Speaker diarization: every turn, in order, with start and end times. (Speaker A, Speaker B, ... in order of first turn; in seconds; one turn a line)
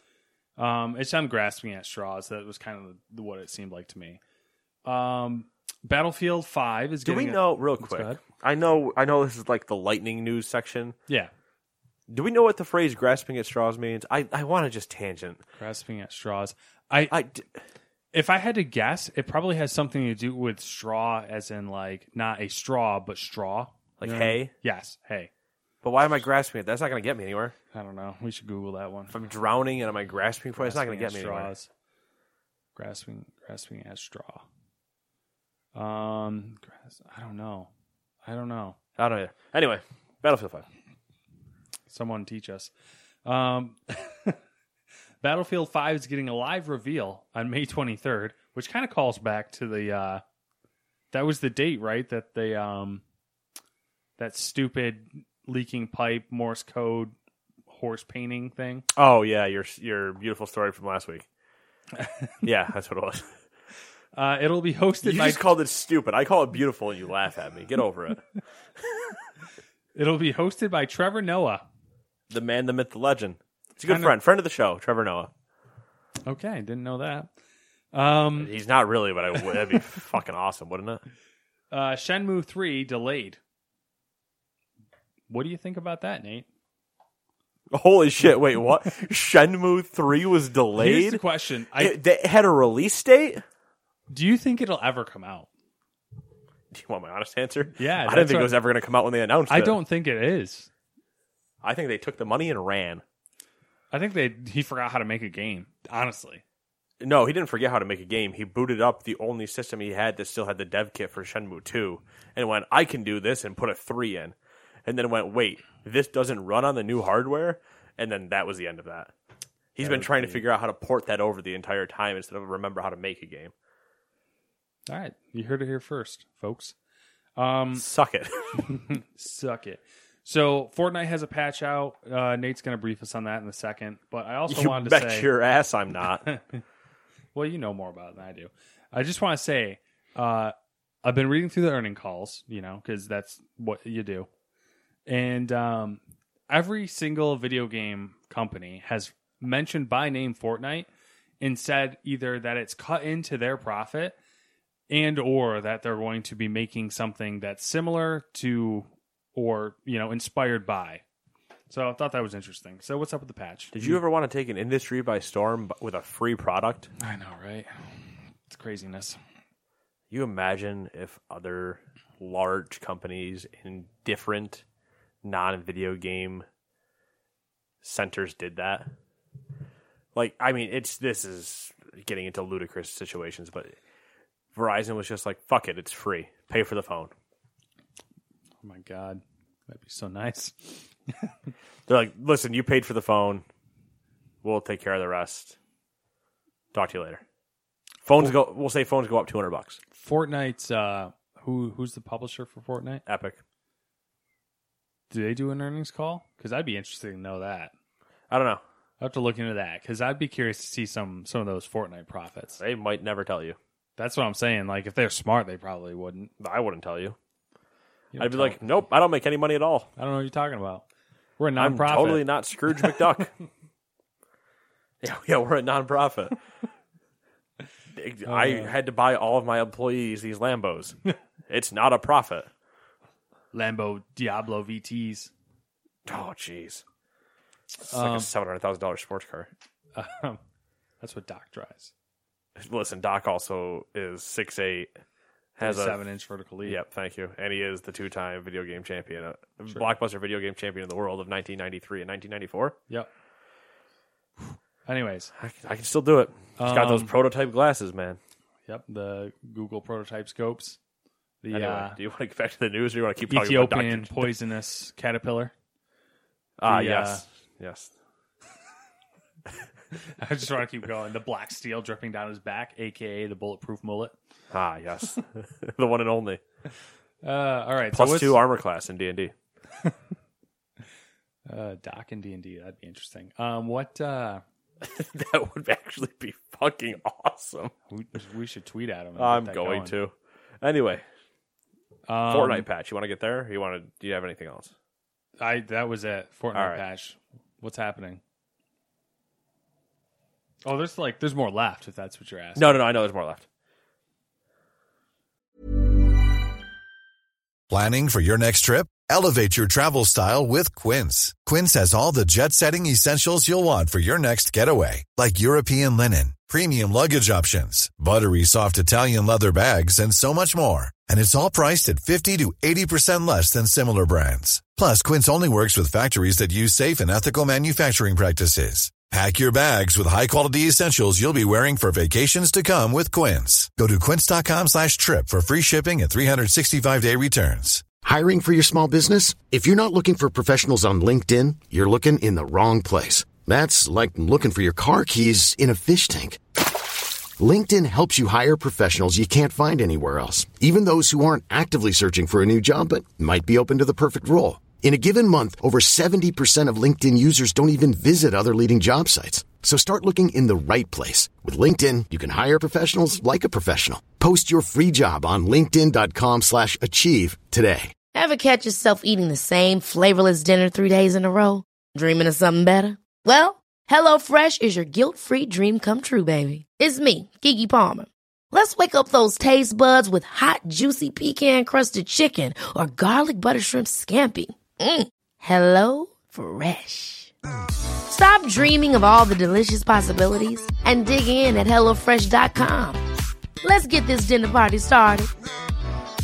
Speaker A: 0.6-4.2
Speaker A: 4.8-8.2
Speaker B: 7.0-10.9
Speaker B: 12.1-15.4
Speaker A: 15.6-17.1
Speaker B: 17.1-17.4
Speaker A: 18.1-25.3
Speaker B: 24.0-24.5
Speaker B: 25.8-27.5
Speaker A: 27.7-29.1
Speaker B: 29.1-31.5
Speaker A: 30.6-31.7
Speaker A: 32.8-34.4
Speaker A: 35.7-37.7
Speaker A: 38.2-38.8
Speaker B: 39.0-40.6
Speaker A: 41.9-42.7
Speaker A: 43.2-44.4
Speaker A: 45.2-50.2
Speaker A: 51.1-53.0
Speaker A: 54.2-57.1
Speaker A: 57.7-58.8
Speaker B: 58.9-61.2
Speaker A: 62.0-62.3
Speaker B: 62.4-63.3
Speaker A: 64.1-65.4
Speaker B: 65.0-68.2
Speaker A: 69.9-71.6
Speaker B: 72.3-75.3
Speaker A: 73.8-74.1
Speaker A: 76.2-77.3
Speaker A: 77.9-78.5
Speaker B: 78.4-81.0
Speaker A: 81.7-83.4
Speaker A: 85.3-86.5
Speaker B: 87.7-91.2
Speaker A: 90.8-92.0
Speaker B: 91.8-93.4
Speaker A: 94.1-95.5
Speaker B: 96.7-99.8
Speaker A: 97.7-98.6
Speaker A: 99.5-100.7
Speaker B: 101.6-103.0
Speaker A: 103.9-106.4
Speaker B: 107.0-114.3
Speaker B: 114.8-119.1
Speaker B: 119.7-123.5
Speaker A: 119.8-120.4
Speaker A: 124.9-126.7
Speaker A: 127.3-127.8
Speaker B: 127.7-128.7
Speaker A: 128.7-135.3
Speaker B: 134.5-136.3
Speaker A: 136.2-136.6
Speaker A: 137.3-144.3
Speaker A: 145.1-150.9
Speaker A: 151.4-154.2
Speaker A: 154.9-161.0
Speaker A: 161.7-164.0
Speaker B: 163.7-166.9
Speaker A: 167.0-169.2
Speaker B: 170.1-174.6
Speaker B: 175.2-176.4
Speaker B: 177.8-178.9
Speaker B: 180.1-183.7
Speaker B: 184.5-187.1
Speaker A: 188.6-191.3
Speaker B: 191.9-193.4
Speaker B: 194.4-195.6
Speaker B: 196.7-197.2
Speaker B: 198.0-199.8
Speaker A: 199.9-203.0
Speaker B: 203.1-203.4
Speaker A: 205.1-207.7
Speaker B: 208.3-208.6
Speaker A: 209.0-212.6
Speaker B: 212.6-213.6
Speaker A: 214.0-216.3
Speaker B: 216.4-217.2
Speaker A: 218.1-218.6
Speaker B: 218.2-219.9
Speaker A: 220.0-220.8
Speaker A: 221.4-222.3
Speaker B: 221.6-223.3
Speaker B: 225.0-226.4
Speaker B: 227.9-231.0
Speaker A: 228.3-228.7
Speaker B: 231.5-232.5
Speaker A: 233.5-235.3
Speaker B: 236.1-236.8
Speaker A: 237.8-238.3
Speaker B: 237.8-239.5
Speaker A: 239.9-240.4
Speaker A: 241.0-241.9
Speaker B: 242.6-244.9
Speaker B: 245.6-246.0
Speaker A: 245.6-246.8
Speaker B: 246.6-252.8
Speaker A: 254.8-255.3
Speaker B: 255.4-258.2
Speaker A: 256.6-257.1
Speaker A: 258.7-260.8
Speaker A: 261.4-262.0
Speaker B: 261.5-264.3
Speaker A: 263.3-265.5
Speaker B: 266.6-267.9
Speaker A: 266.6-267.2
Speaker A: 270.1-274.1
Speaker B: 274.5-276.4
Speaker A: 277.2-278.4
Speaker B: 277.9-279.3
Speaker A: 281.5-284.4
Speaker B: 284.8-287.7
Speaker A: 287.9-289.9
Speaker B: 289.1-291.0
Speaker A: 292.1-292.6
Speaker B: 292.3-294.7
Speaker A: 295.4-298.2
Speaker B: 296.5-296.8
Speaker A: 300.6-302.7
Speaker B: 302.6-303.4
Speaker C: 307.7-337.9
Speaker D: 338.0-346.6
Speaker D: 347.4-367.9
Speaker E: 368.1-387.3
Speaker E: 388.1-393.0
Speaker E: 393.6-395.3